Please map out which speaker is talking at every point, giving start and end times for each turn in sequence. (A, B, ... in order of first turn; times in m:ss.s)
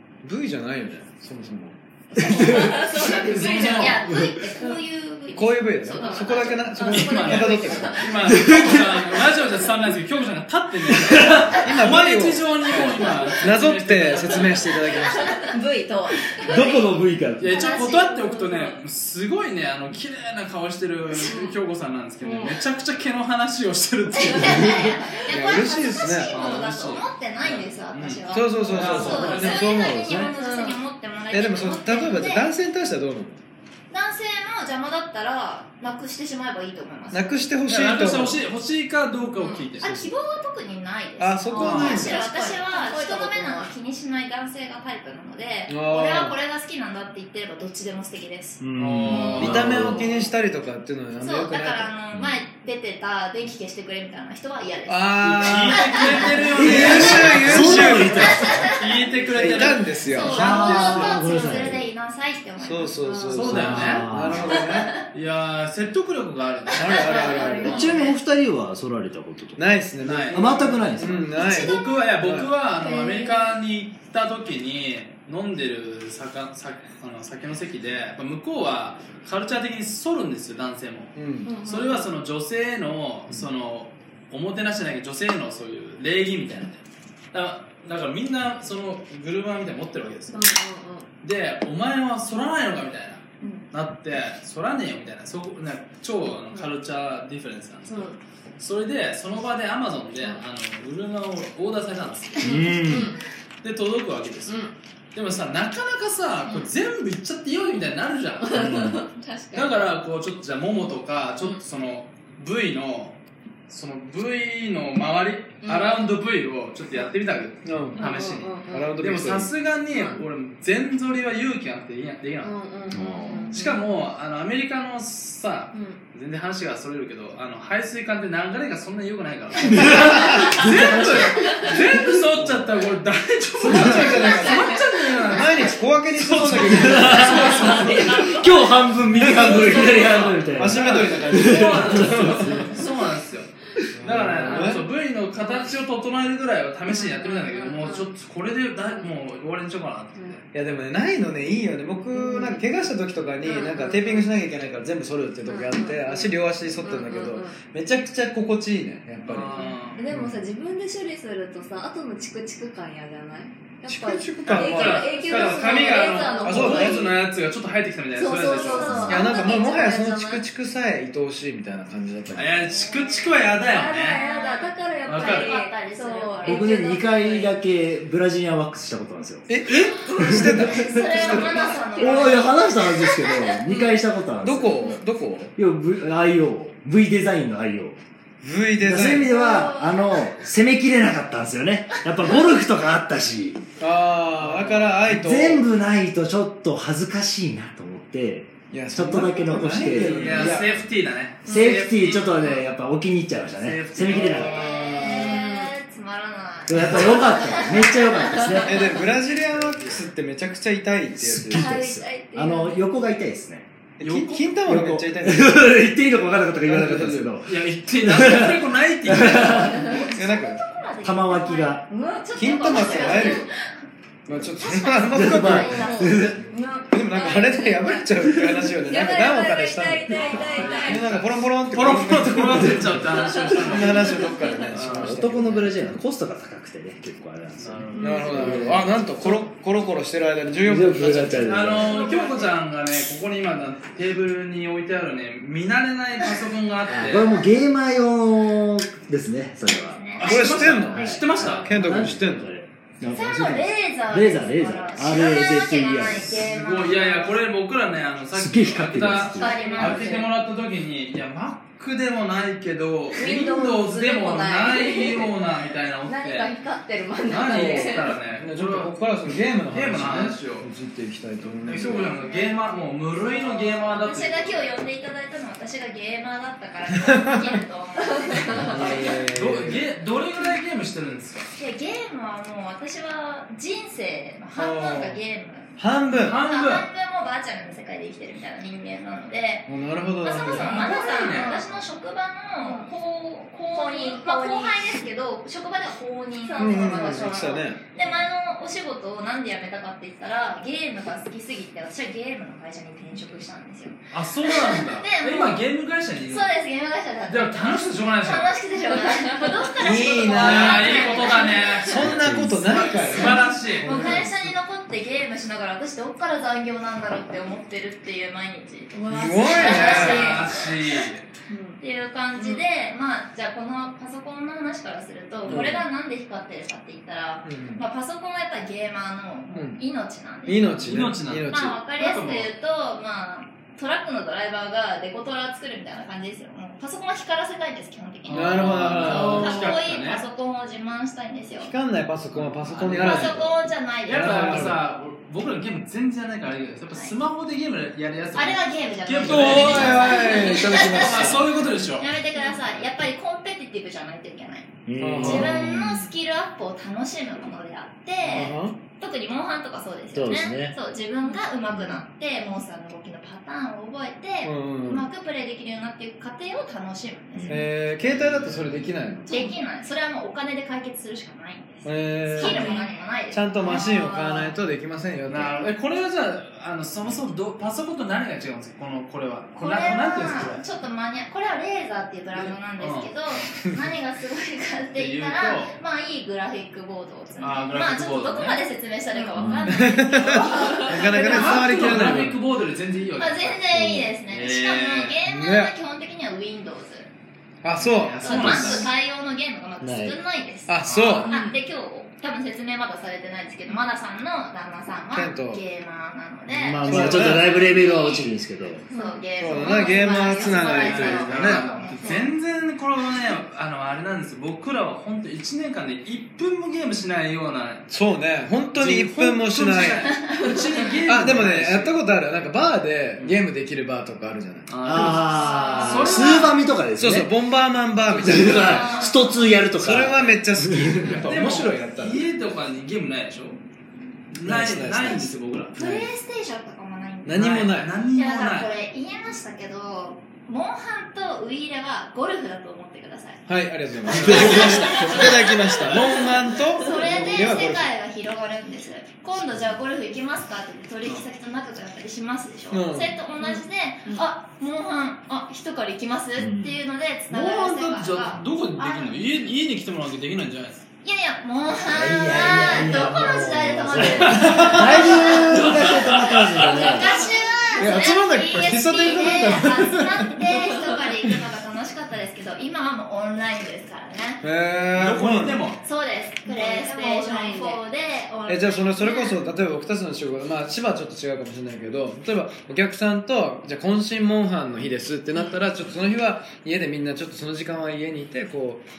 0:00.2-0:02.8 A
0:02.2-0:04.1 B
0:02.3-0:02.7 C
0:02.6-0:06.8 D
0:02.8-0:04.0 E
0:04.1-0:04.3 C
0:05.3-0:08.1 A
0:05.9-0:08.3 B
0:06.8-0:14.8 E
0:08.2-0:09.0 C
0:11.0-0:11.5 C
0:11.5-0:15.4 A
0:15.1-0:16.9 B
0:15.2-0:15.4 D
0:16.4-0:17.6 C
0:17.4-0:24.9 E
0:17.4-0:18.8 B
0:21.1-0:21.5 B
0:22.2-0:22.6 B
0:24.1-0:32.5 D
0:24.3-0:24.7 B
0:25.2-0:26.4 A
0:26.3-0:29.7 E
0:28.3-0:30.3 A
0:28.8-0:29.6 C
0:30.3-0:30.8 B
0:31.3-0:33.4 A
0:33.9-0:37.3 D
0:37.1-0:38.4 A
0:37.7-0:40.0 E
0:39.4-0:39.7 B
0:39.8-0:50.0 D
0:41.2-0:42.2 A
0:41.5-0:43.7 B
0:41.5-0:42.2 E
0:45.7-0:46.3 A
0:48.6-0:50.1 C
0:48.8-0:50.0 E
0:49.4-0:51.9 A
0:51.2-1:03.0 D
0:52.1-0:52.4 C
0:54.8-0:58.6 A
0:55.3-0:58.2 E
0:56.5-0:58.7 C
0:58.7-1:01.1 E
0:59.3-1:01.3 A
1:00.1-1:01.9 C
1:02.6-1:05.0 A
1:03.0-1:03.5 B
1:03.3-1:04.5 E
1:03.4-1:04.6 C
1:04.5-1:04.9 D
1:05.1-1:07.9 E
1:06.7-1:08.0 A
1:06.8-1:08.2 D
1:07.0-1:07.9 B
1:07.6-1:09.7 C
1:09.6-1:12.5 A
1:10.0-1:10.8 E
1:10.3-1:11.3 C
1:11.3-1:11.8 D
1:11.4-1:26.8 E
1:12.8-1:13.6 B
1:21.1-1:21.5 A
1:21.4-1:22.1 B
1:27.3-1:30.4 E
1:30.3-1:31.0 B
1:31.2-1:42.8 E
1:37.9-1:38.2 B
1:42.4-1:43.1 C
1:42.8-1:43.2 B
1:43.6-1:44.6 E
1:44.5-1:44.7 B
1:45.1-1:48.8 E
1:48.4-1:49.8 B
1:48.5-1:49.0 C
1:49.5-1:53.2 E
1:53.7-2:03.0 E
1:55.6-1:56.0 B
1:57.6-1:58.0 A
1:57.9-1:58.9 B
1:58.7-1:59.5 A
1:59.9-2:00.2 B
2:02.4-2:03.8 B
2:02.9-2:03.5 C
2:03.5-2:18.4 E
2:05.7-2:06.0 B
2:09.6-2:12.5 C
2:09.9-2:10.7 B
2:10.0-2:10.5 A
2:11.3-2:11.7 B
2:13.6-2:14.7 A
2:13.6-2:14.1 C
2:14.0-2:15.6 B
2:15.3-2:18.2 A
2:16.5-2:22.8 C
2:17.3-2:18.5 B
2:19.1-2:22.7 A
2:19.3-2:30.4 E
2:23.9-2:24.9 A
2:26.9-2:28.1 B
2:30.5-2:40.4 A
2:32.1-2:32.6 B
2:33.4-2:34.3 B
2:35.5-2:37.6 B
2:39.2-2:40.0 E
2:39.4-2:47.1 B
2:43.9-2:47.2 A
2:44.4-2:49.2 E
2:46.0-2:46.4 D
2:48.2-2:50.4 B
2:48.6-2:49.3 C
2:49.0-2:52.6 A
2:52.3-2:54.2 E
2:52.7-2:53.5 D
2:53.6-2:57.5 B
2:54.0-2:56.8 D
2:55.0-2:55.6 E
2:56.4-2:59.5 C
2:59.5-3:01.8 A
2:59.9-3:03.5 D
3:00.1-3:04.9 C
3:01.4-3:02.5 B
3:04.4-3:05.5 A
3:05.6-3:08.0 C
3:08.4-3:09.4 A
3:08.8-3:13.6 C
3:09.3-3:10.0 B
3:13.8-3:15.6 A
3:14.4-3:15.0 E
3:15.0-3:20.7 C
3:18.7-3:20.8 A
3:19.7-3:22.7 E
3:21.4-3:24.7 C
3:21.4-3:21.7 B
3:23.6-3:24.6 E
3:24.0-3:25.4 A
3:24.3-3:28.6 D
3:25.1-3:25.7 B
3:26.7-3:28.8 C
3:28.6-3:31.8 A
3:29.4-3:30.1 E
3:31.2-3:33.7 C
3:31.5-3:32.9 B
3:34.0-3:35.8 A
3:34.0-3:34.5 E
3:34.6-3:39.8 C
3:36.6-3:37.3 A
3:37.4-3:40.0 E
3:39.7-3:40.1 B
3:39.8-3:43.7 D
3:40.1-3:40.6 A
3:41.0-3:41.8 C
3:41.9-3:43.5 B
3:42.3-3:43.5 A
3:44.2-3:46.4 A
3:44.5-3:46.3 D
3:45.1-3:46.4 C
3:45.5-3:51.1 B
3:46.9-3:55.8 A
3:50.2-3:50.9 D
3:50.3-3:55.2 E
3:52.5-3:52.9 C
3:53.1-3:54.7 B
3:54.8-3:59.4 C
3:57.6-3:58.9 E
3:57.9-3:58.4 B
3:58.0-4:01.8 A
4:00.6-4:02.0 C
4:01.4-4:07.4 E
4:01.8-4:02.5 B
4:01.9-4:02.4 D
4:06.9-4:16.4 C
4:09.8-4:10.4 D
4:10.2-4:11.7 E
4:10.2-4:12.5 A
4:13.1-4:17.4 D
4:16.2-4:26.5 E
4:18.3-4:20.1 C
4:19.4-4:20.3 D
4:19.4-4:20.2 B
4:23.1-4:25.3 B
4:26.0-4:28.1 B
4:27.2-4:28.9 E
4:27.5-4:32.1 A
4:29.7-4:30.7 E
4:31.6-4:34.6 E
4:32.0-4:32.6 D
4:33.2-4:39.2 D
4:37.0-4:37.6 A
4:38.1-4:38.8 B
4:38.6-4:39.9 A
4:39.3-4:41.5 E
4:41.6-5:05.6 D
4:44.5-4:45.2 A
4:45.8-4:46.4 A
4:46.2-4:46.9 E
4:49.7-4:50.9 A
4:50.4-4:51.8 E
4:50.9-4:51.6 B
4:52.6-4:52.9 B
4:53.7-4:54.8 B
4:56.4-4:57.6 B
4:56.6-4:57.8 A
5:04.1-5:06.5 E
5:06.3-5:12.1 D
5:07.3-5:08.5 E
5:08.9-5:09.7 B
5:09.8-5:11.1 A
5:10.2-5:14.1 E
5:11.8-5:14.5 A
5:12.0-5:12.7 C
5:12.7-5:21.0 D
5:18.9-5:20.3 B
5:19.1-5:20.5 A
5:19.6-5:21.2 E
5:21.5-5:21.8 B
5:21.8-5:30.9 D
5:22.4-5:22.6 B
5:25.5-5:25.8 A
5:27.4-5:27.8 A
5:29.5-5:29.8 A
5:30.4-5:31.8 A
5:30.8-5:32.5 E
5:31.5-5:41.7 D
5:38.2-5:40.2 E
5:38.3-5:39.7 A
5:41.6-5:44.8 A
5:42.3-5:43.4 E
5:42.9-5:44.7 D
5:44.0-5:52.2 E
5:48.3-6:07.7 D
5:49.2-5:51.5 A
5:54.8-5:56.1 C
5:55.0-5:55.8 A
5:58.2-5:58.8 A
6:00.1-6:00.7 C
6:01.7-6:02.0 C
6:04.4-6:05.1 A
6:07.4-6:07.6 C
6:07.5-6:09.3 A
6:08.0-6:08.9 E
6:09.3-6:09.6 B
6:09.3-6:14.6 D
6:11.8-6:12.8 A
6:12.4-6:12.9 B
6:13.3-6:15.6 A
6:15.3-6:20.6 E
6:19.6-6:31.8 D
6:22.3-6:23.1 E
6:24.9-6:25.7 E
6:27.4-6:28.6 E
6:29.1-6:29.6 B
6:29.4-6:29.7 C
6:29.6-6:32.4 A
6:30.4-6:31.1 B
6:30.9-6:33.6 E
6:33.2-6:37.1 D
6:33.7-6:34.1 C
6:34.3-6:35.2 E
6:35.2-6:35.7 A
6:37.6-6:38.8 A
6:37.8-6:38.9 E
6:38.2-6:48.3 D
6:39.8-6:40.2 C
6:40.7-6:41.3 A
6:40.8-6:41.3 E
6:41.2-6:41.6 B
6:45.1-6:45.6 A
6:46.5-6:48.8 C
6:46.8-6:47.6 A
6:48.9-6:51.1 B
6:48.9-6:52.3 D
6:49.4-6:51.7 A
6:50.7-6:57.9 E
6:57.9-7:00.1 A
6:58.7-7:02.0 E
7:01.1-7:04.9 A
7:04.7-7:06.6 E
7:04.8-7:07.3 C
7:05.1-7:06.5 D
7:07.0-7:09.0 A
7:08.1-7:09.0 E
7:08.1-7:11.0 C
7:08.3-7:09.5 D
7:09.8-7:12.2 A
7:11.0-7:13.6 E
7:14.3-7:16.0 E
7:14.4-7:16.0 A
7:15.8-7:23.4 D
7:17.2-7:17.9 A
7:17.3-7:18.7 E
7:23.4-7:27.9 A
7:24.1-7:26.1 E
7:24.2-7:25.9 D
7:26.6-7:39.2 D
7:32.7-7:33.2 A
7:33.4-7:34.2 B
7:36.4-7:36.8 C
7:37.3-7:40.8 E
7:41.0-7:45.6 D
7:41.8-7:47.1 C
7:44.0-7:47.2 E
7:44.2-7:46.6 A
7:46.6-7:54.4 D
7:47.8-7:50.5 A
7:54.4-7:55.6 A
7:54.9-7:55.8 E
7:55.8-7:59.4 D
7:56.4-7:57.8 B
7:58.5-8:08.8 A